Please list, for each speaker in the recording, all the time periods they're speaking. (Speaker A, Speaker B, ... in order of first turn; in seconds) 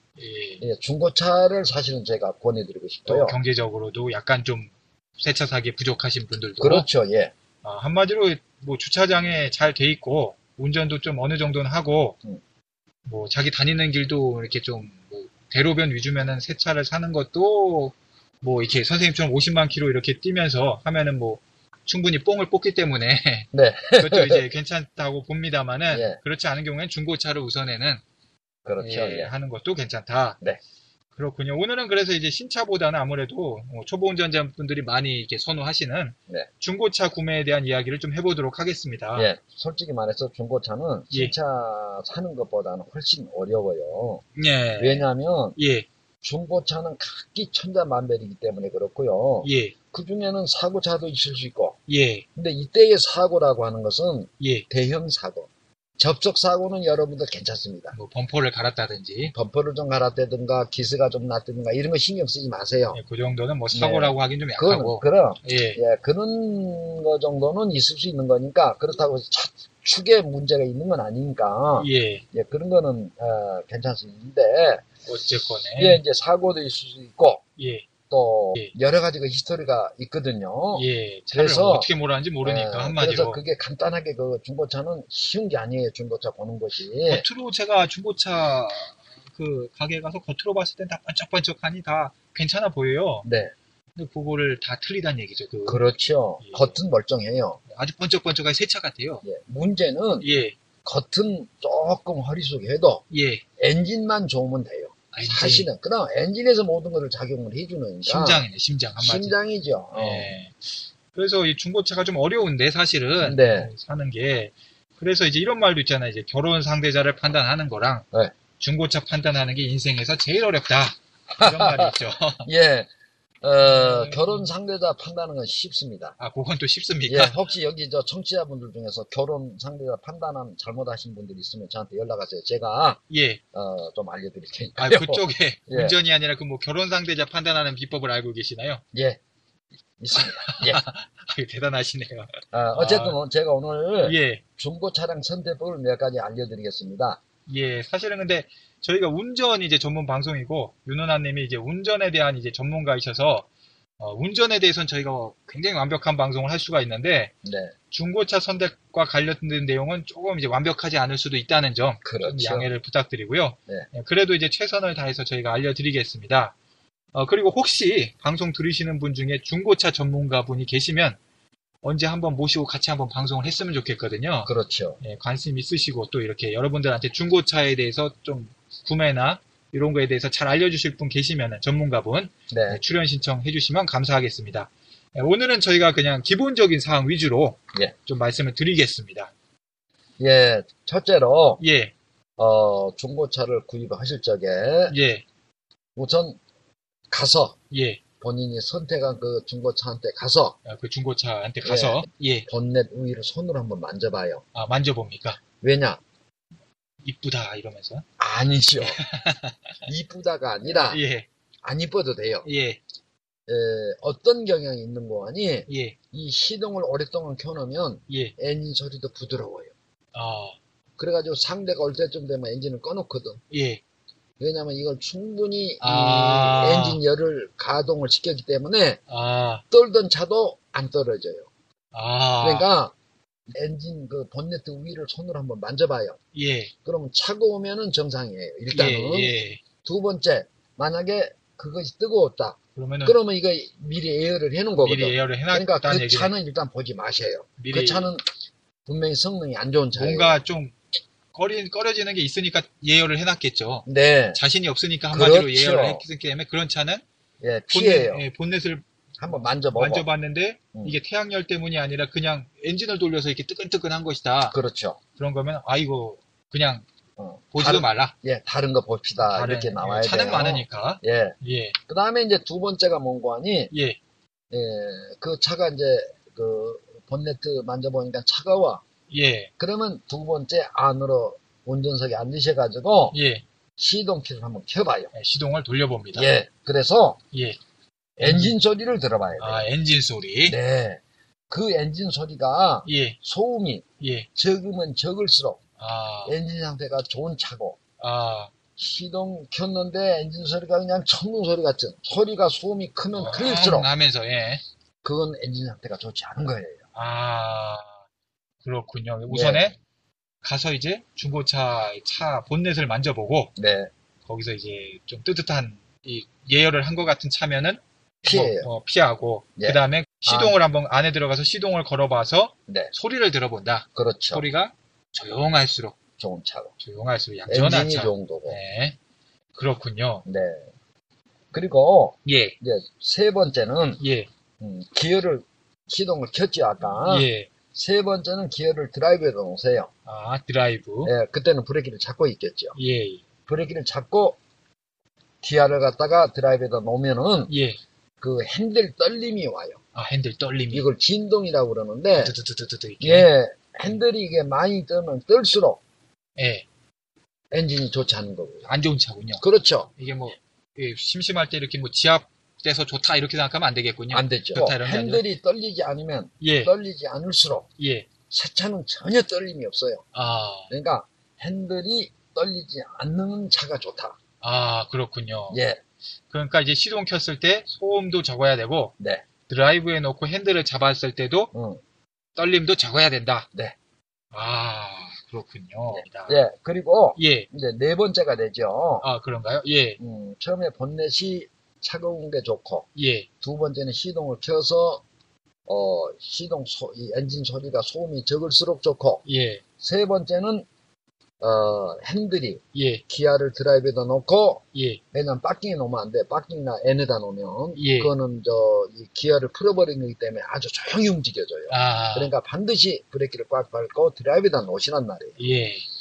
Speaker A: 0.2-0.6, 3.0-6.9, 7.6-12.2, 13.1-28.0, 28.8-30.4, 31.1-39.3, 44.3-45.9, 49.4-49.7, 51.9-52.2, 54.4-54.6, 57.9-59.3, 62.9-65.8, 71.8-72.2, 75.0-76.0, 77.6-77.9, 80.7-83.4, 87.1-93.3, 94.0-95.8, 96.4-96.8, 97.7-99.2, 100.2-100.5, 103.1-103.4, 105.1-105.7, 108.0-109.3, 109.9-110.5, 111.1-118.0, 118.6-122.5, 123.6-124.5, 126.2-127.4, 133.1-133.4, 134.8-138.8, 140.1-143.2, 144.0-144.4, 147.5-153.5, 154.0-157.3, 157.9-166.5, 167.1-171.2, 171.8-189.3, 191.6-191.9, 194.9-195.2, 197.7-198.0, 200.6-202.5, 204.5-205.4, 207.0-208.0, 208.8-209.7, 210.6-211.3, 212.4-212.8, 215.7-216.0, 218.1-218.3, 220.1-220.6, 223.5-223.8, 225.8-227.0, 229.1-229.6, 231.9-232.7, 236.3-236.7, 238.7-239.6, 242.8-243.2, 244.8-246.3, 247.6-248.1, 249.9-250.7, 251.3-257.0, 257.7-258.8, 259.7-264.6, 265.2-266.9, 267.5-268.1, 269.2-271.8, 273.7-274.0, 279.1-279.5, 283.1-283.4, 285.1-286.3, 287.3-287.6, 288.2-288.5, 289.4-290.6, 292.8-293.2, 294.0-294.3, 295.8-296.3, 298.0-298.5, 303.1-304.6, 306.9-308.0, 308.6-309.8, 310.4-313.5, 314.2-326.0, 326.8-329.0, 329.6-330.2, 332.2-332.6, 334.0-334.3, 337.0-337.5, 340.1-341.1, 342.7-343.2, 347.5-347.8, 349.9-350.9, 352.1-353.3, 356.4-356.6, 358.6-359.4, 360.0-365.2, 366.4-366.7, 367.8-368.1, 370.1-370.7, 374.4-375.6, 376.3-378.9, 379.5-381.5, 382.4-383.5, 384.3-386.4, 387.1-387.5, 389.0-390.0, 392.9-393.3, 399.2-399.6, 402.7-403.0, 404.7-405.0, 407.7-408.1, 411.7-412.3, 415.4-415.9
Speaker B: 0.6-3.4, 6.6-7.3, 23.5-24.4, 25.9-26.2, 28.6-29.3, 39.1-44.2, 44.8-45.6, 46.2-51.8, 52.3-57.9, 59.3-63.0, 63.7-74.8, 75.8-77.4, 78.1-81.9, 82.4-87.2, 93.2-93.5, 95.7-97.6, 99.2-100.2, 100.8-103.0, 103.6-108.4, 109.0-110.3, 113.2-113.7, 121.3-121.9, 122.4-122.9, 123.4-126.2, 127.0-133.0, 133.5-135.9, 138.9-139.2, 140.0-140.8, 142.5-147.2, 157.4-157.7, 162.0-162.7, 174.4-175.0, 182.5-182.8, 190.2-191.6, 192.4-194.9, 195.9-196.4, 197.1-197.6, 198.2-200.6, 201.6-204.4, 205.6-206.0, 208.2-209.0, 209.8-211.0, 211.6-212.4, 213.5-219.7, 221.0-223.4, 224.4-229.0, 229.7-231.5, 232.4-232.9, 233.5-236.2, 236.8-239.3, 239.8-248.2, 248.9-250.4, 253.8-254.4, 255.1-256.0, 257.4-258.2, 259.2-260.1, 264.5-265.0, 267.2-271.3, 271.9-273.7, 274.5-278.8, 279.6-283.1, 283.8-285.1, 286.1-287.2, 288.2-289.6, 290.4-295.6, 296.2-297.8, 298.8-303.9, 305.0-306.8, 309.3-309.6, 313.6-313.9, 318.2-318.7, 319.6-320.6, 323.9-324.4, 326.2-326.7, 327.5-328.6, 330.2-330.7, 331.5-334.0, 334.6-339.9, 341.0-342.7, 343.5-344.4, 345.4-347.5, 348.2-349.8, 350.7-352.3, 353.0-355.8, 357.5-358.7, 359.4-359.9, 364.1-367.7, 368.3-370.0, 370.7-374.2, 375.5-375.8, 379.0-379.2, 381.5-381.8, 385.9-389.1, 390.0-392.9, 393.4-395.0, 395.7-399.2, 399.8-400.6, 401.4-415.4